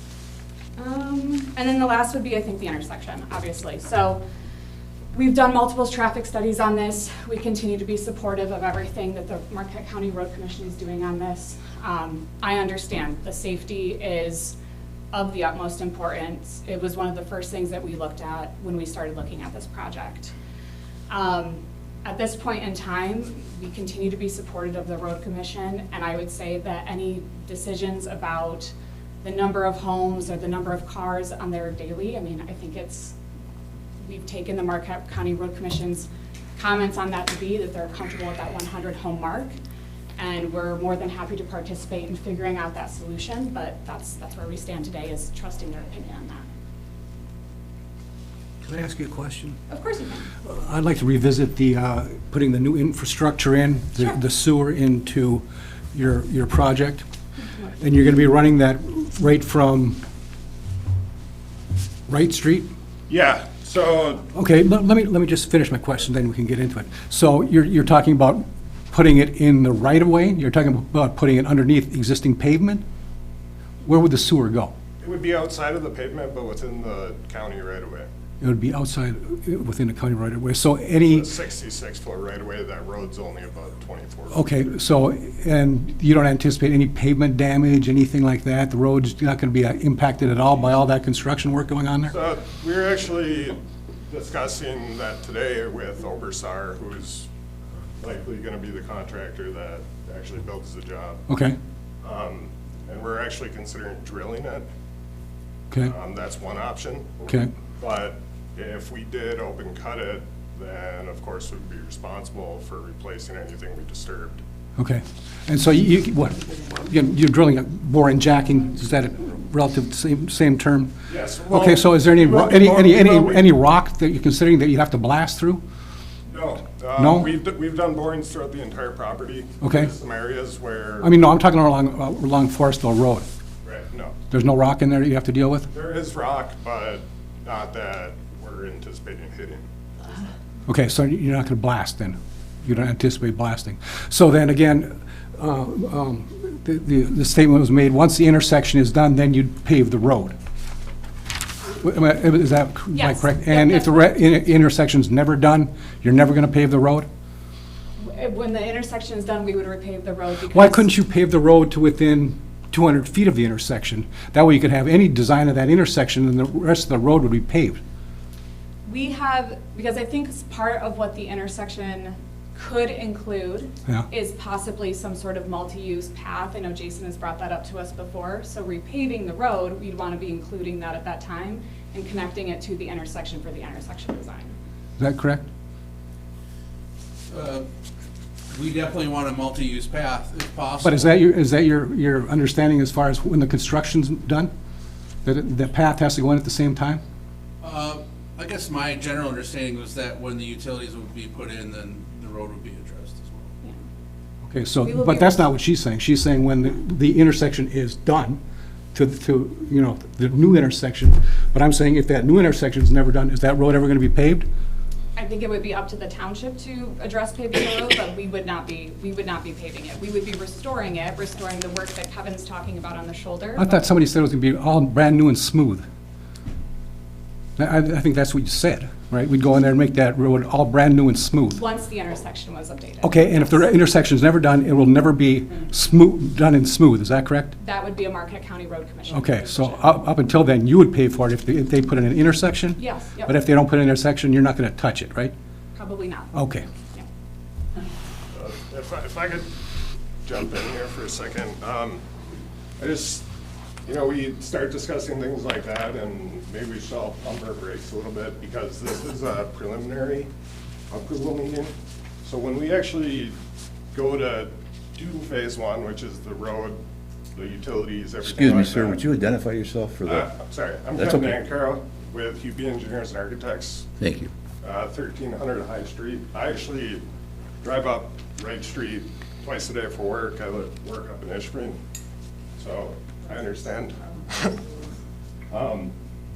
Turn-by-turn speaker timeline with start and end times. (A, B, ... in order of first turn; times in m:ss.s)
0:00.8-0:04.2 A
0:05.1-0:14.6 A
0:15.1-0:20.3 A
0:21.1-0:33.2 A
0:34.0-0:39.5 A
0:40.2-0:46.4 A
0:48.6-0:49.6 B
0:49.7-0:50.4 A
0:50.4-0:57.1 B
0:57.8-1:00.0 B
1:02.1-1:02.7 B
1:03.1-1:04.2 C
1:04.3-1:12.8 B
1:13.8-1:14.7 B
1:15.0-1:18.1 C
1:18.4-1:21.3 B
1:21.1-1:24.5 C
1:24.3-1:32.1 B
1:32.1-1:37.3 C
1:38.0-1:41.2 C
1:41.3-1:41.6 B
1:42.0-1:44.7 C
1:45.8-1:54.4 C
1:54.8-2:00.9 B
2:01.1-2:03.4 C
2:01.5-2:05.6 B
2:06.3-2:11.1 C
2:07.0-2:07.3 B
2:09.6-2:09.9 B
2:11.0-2:13.3 B
2:13.6-2:14.2 C
2:14.3-2:15.7 B
2:15.7-2:19.6 C
2:20.7-2:30.4 B
2:31.7-2:37.1 B
2:32.9-2:34.1 A
2:38.0-2:40.9 A
2:40.5-2:47.8 B
2:48.9-3:04.5 A
3:05.0-3:05.4 B
3:07.3-3:07.7 D
3:08.5-3:11.1 D
3:10.8-3:14.5 B
3:15.2-3:17.0 B
3:17.6-3:23.5 D
3:24.4-3:28.4 B
3:24.8-3:25.4 A
3:28.9-3:34.5 B
3:35.2-3:43.8 A
3:43.6-3:45.8 B
3:47.6-3:51.6 B
3:51.5-3:53.7 A
3:53.0-3:57.6 B
3:57.6-3:59.8 A
3:59.1-4:05.3 B
4:02.8-4:03.4 A
4:05.8-4:06.4 A
4:06.3-4:06.7 B
4:08.3-4:09.5 C
4:10.2-4:12.0 C
4:12.8-4:13.3 C
4:13.8-4:20.3 C
4:20.9-4:23.4 C
4:23.9-4:26.8 C
4:27.4-4:29.0 C
4:28.2-4:30.3 E
4:30.1-4:33.9 C
4:31.0-4:31.4 E
4:34.0-4:34.3 E
4:34.6-4:37.0 C
4:37.6-4:41.8 C
4:42.6-4:44.6 C
4:45.5-4:46.0 C